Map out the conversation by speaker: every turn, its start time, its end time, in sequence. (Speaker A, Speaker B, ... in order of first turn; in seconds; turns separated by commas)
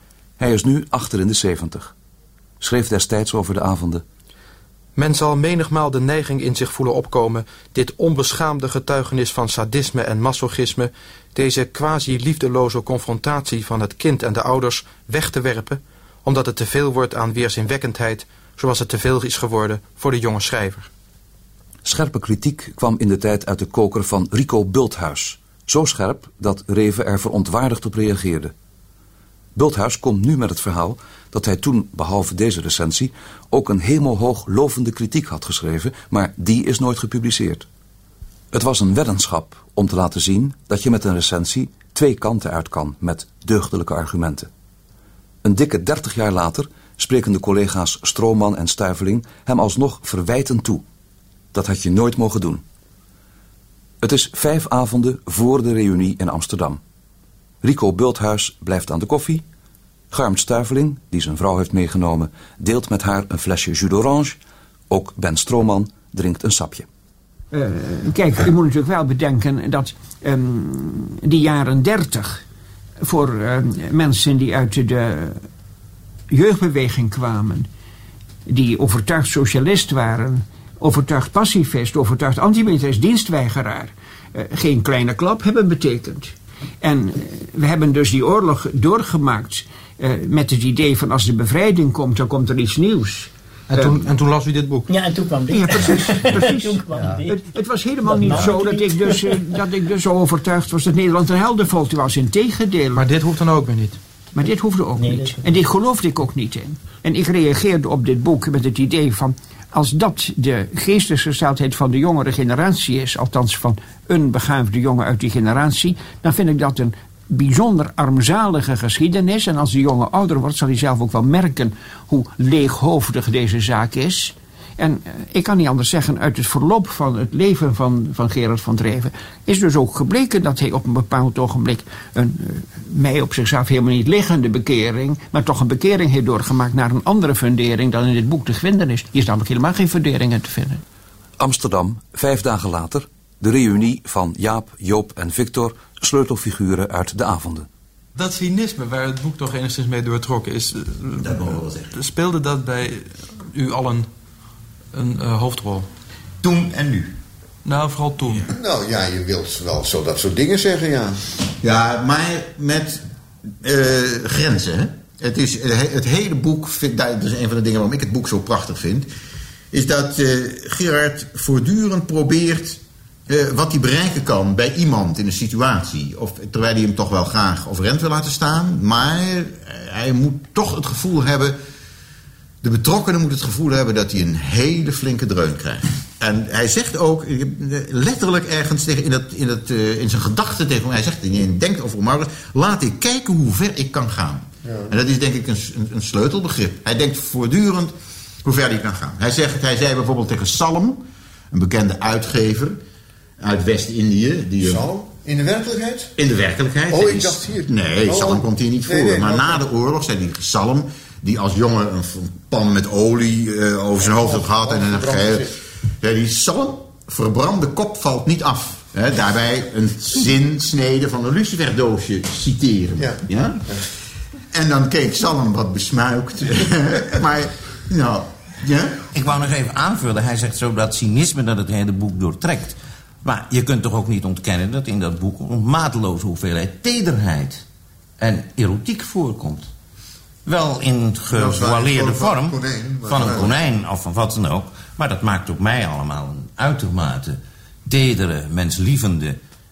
Speaker A: 0.4-1.9, Speaker A: 2.6-4.0, Speaker B: 5.0-20.9, Speaker A: 21.9-28.5, Speaker A: 29.6-37.7, Speaker A: 38.5-44.5, Speaker A: 45.4-50.8, Speaker A: 51.5-52.6, Speaker A: 54.0-56.8, Speaker A: 57.6-59.4, Speaker A: 60.1-64.4, Speaker A: 64.9-66.9, Speaker C: 67.5-72.4, Speaker C: 73.0-75.5, Speaker C: 76.3-77.7, Speaker C: 78.5-93.3, Speaker B: 93.7-94.9, Speaker D: 94.9-97.4, Speaker C: 95.5-103.1, Speaker D: 98.0-99.6, Speaker B: 103.0-104.0, Speaker C: 104.3-140.8, Speaker D: 105.0-105.5, Speaker A: 141.4-147.7, Speaker B: 148.2-154.1, Speaker E: 151.2-151.9, Speaker B: 154.9-155.9, Speaker E: 156.4-157.1, Speaker B: 157.7-158.4, Speaker F: 158.4-161.3, Speaker E: 161.6-163.0, Speaker E: 163.6-169.1, Speaker E: 169.7-181.6, Speaker E: 182.6-202.8, Speaker F: 194.7-194.9, Speaker E: 203.4-204.9, Speaker F: 204.6-206.2, Speaker E: 206.2-223.7, Speaker F: 206.9-209.6, Speaker F: 214.0-215.6, Speaker F: 223.0-223.8, Speaker E: 224.5-229.0, Speaker G: 229.1-237.6, Speaker G: 238.2-239.7, Speaker G: 240.5-249.4, Speaker F: 241.3-243.5